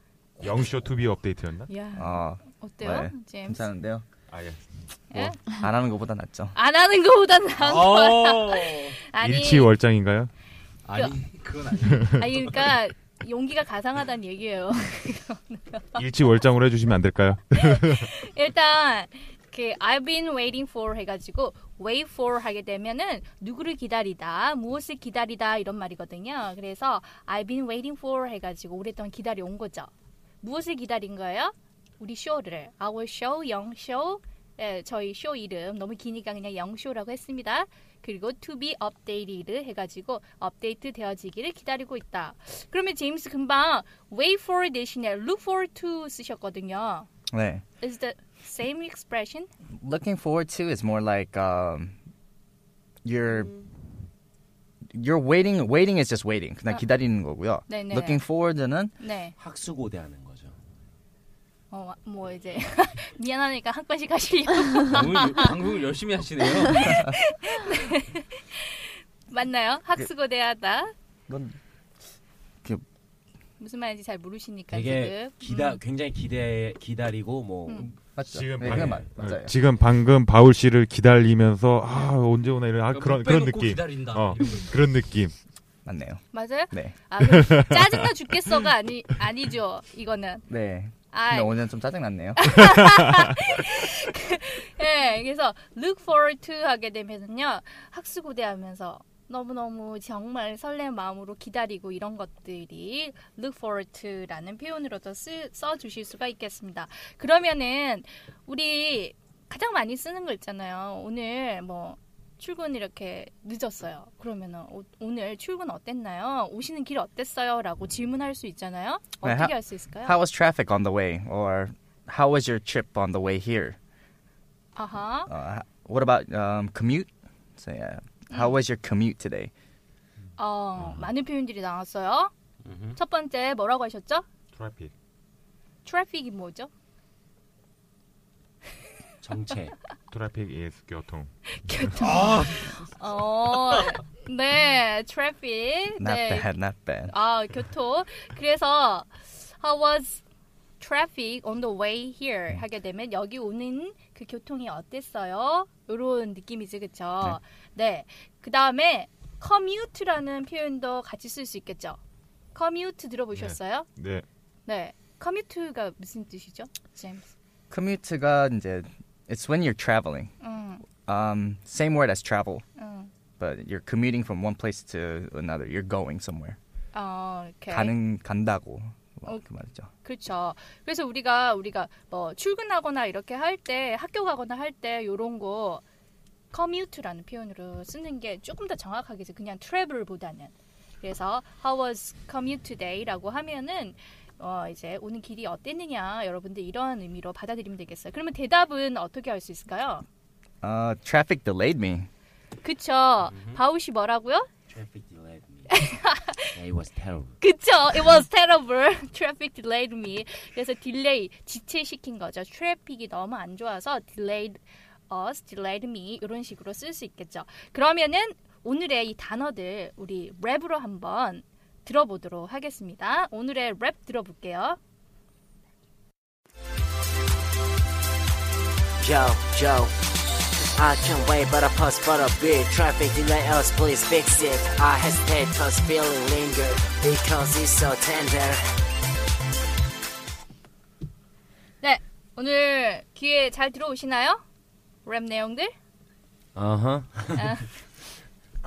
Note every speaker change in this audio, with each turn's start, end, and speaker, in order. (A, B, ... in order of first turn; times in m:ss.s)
0:00.4-0:01.7 A
0:01.7-0:03.7 B
0:02.0-0:04.1 C
0:04.3-0:04.6 A
0:05.1-0:05.4 B
0:05.2-0:06.5 C
0:06.6-0:09.7 B
0:07.6-0:09.0 D
0:09.2-0:10.3 A
0:10.8-0:12.2 D
0:11.9-0:12.2 A
0:12.1-0:16.0 B
0:16.0-0:18.1 A
0:17.6-0:29.9 B
0:30.4-0:47.1 B
0:47.3-0:47.6 C
0:47.8-0:49.5 B
0:49.8-0:52.0 C
0:53.0-0:53.5 C
0:54.9-0:58.9 C
0:57.7-0:58.2 B
0:59.0-0:59.4 B
0:59.4-1:00.6 E
1:01.7-1:05.5 B
1:04.9-1:07.0 D
1:06.7-1:10.9 B
1:06.9-1:07.1 C
1:11.3-1:11.6 C
1:13.6-1:15.8 B
1:14.7-1:17.9 E
1:18.1-1:19.5 C
1:18.2-1:25.3 A
1:22.9-1:24.8 D
1:25.8-1:27.0 C
1:26.3-1:30.4 B
1:27.2-1:28.1 A
1:30.5-1:32.6 C
1:31.1-1:31.6 B
1:32.4-2:00.2 B
1:59.2-2:03.8 C
2:04.8-2:05.3 B
2:05.3-2:09.5 C
2:08.3-2:08.6 B
2:10.4-2:12.3 B
2:12.7-2:13.0 D
2:13.0-2:14.2 B
2:14.5-2:14.9 A
2:15.8-2:16.7 B
2:19.2-2:19.8 E
2:20.1-2:21.3 A
2:21.5-2:26.5 B
2:22.0-2:22.7 D
2:26.0-2:27.1 C
2:27.1-2:30.2 B
2:30.8-2:42.0 B
2:42.6-2:43.9 B
2:43.3-2:44.2 A
2:44.7-2:47.3 B
2:47.7-2:50.3 C
2:50.4-2:50.8 B
2:51.0-2:52.6 C
2:52.8-2:53.1 B
2:53.4-2:56.6 C
2:56.9-2:58.0 B
2:57.7-2:59.9 C
3:00.0-3:05.8 B
3:06.5-3:20.0 B
3:20.6-3:22.1 C
3:22.6-3:24.5 B
3:23.3-3:23.6 E
3:24.7-3:25.7 E
3:25.7-3:26.6 B
3:26.5-3:27.4 E
3:27.4-3:44.8 B
3:49.0-3:50.0 F
3:50.7-3:58.6 F
4:01.8-4:04.4 B
4:05.0-4:05.7 B
4:06.6-4:07.5 E
4:07.4-4:07.7 B